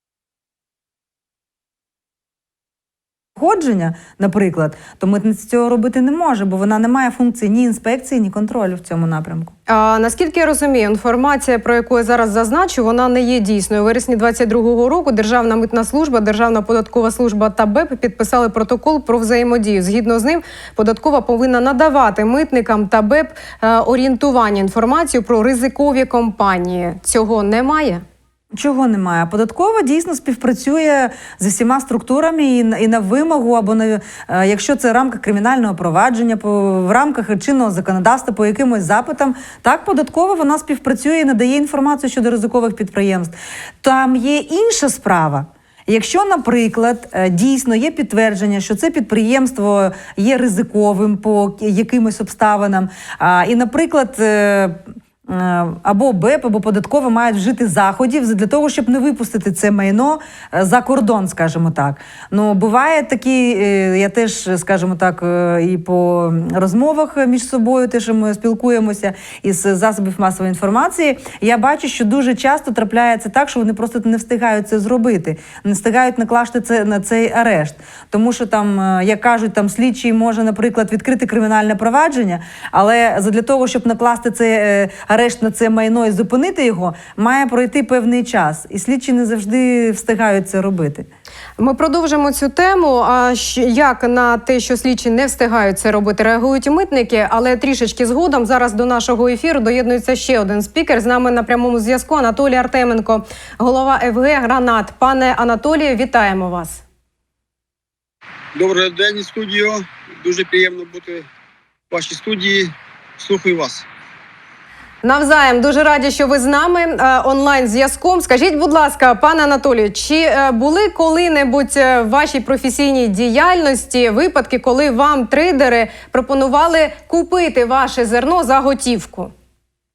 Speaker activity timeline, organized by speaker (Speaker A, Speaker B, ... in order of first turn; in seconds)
Speaker A: 3.4-9.5, 28.5-91.1
Speaker B: 9.7-28.0, 91.6-106.8, 115.0-129.3
Speaker C: 108.5-111.2, 111.9-113.9